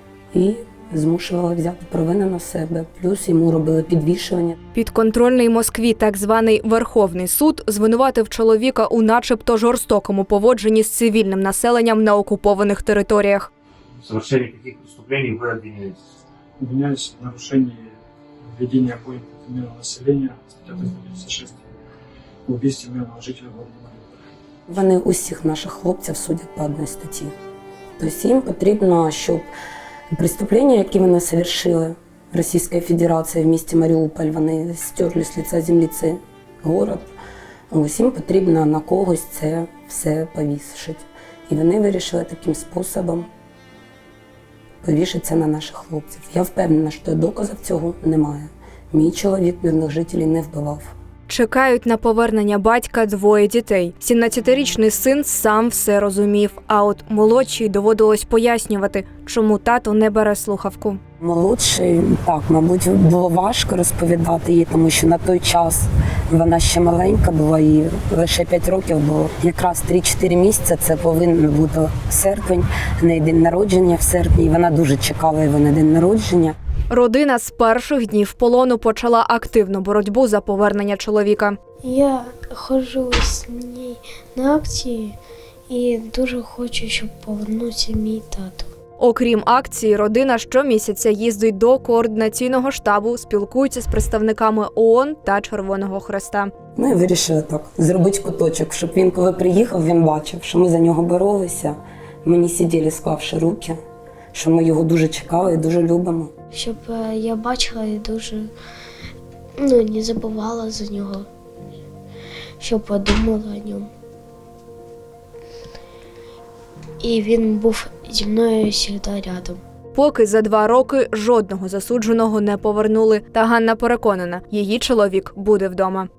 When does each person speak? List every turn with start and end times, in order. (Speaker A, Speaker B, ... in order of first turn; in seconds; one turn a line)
Speaker A: 0.3-4.5
Speaker B: 4.7-13.5
Speaker C: 14.0-16.0
Speaker D: 16.6-17.9
Speaker D: 18.5-21.6
Speaker D: 22.5-24.1
Speaker A: 24.7-27.3
Speaker A: 28.0-29.5
Speaker A: 30.1-37.1
Speaker A: 37.7-43.3
Speaker A: 44.8-50.9
Speaker B: 51.3-61.0
Speaker A: 61.2-76.6
Speaker B: 76.9-81.6
Speaker E: 81.8-85.2
Speaker E: 85.7-88.7
Speaker B: 89.0-96.5
Speaker A: 96.8-103.8
Speaker A: 104.3-106.3
Speaker E: 106.5-108.5
Speaker E: 109.6-111.3
Speaker E: 112.6-113.9
Speaker E: 117.0-119.6
Speaker B: 119.9-126.1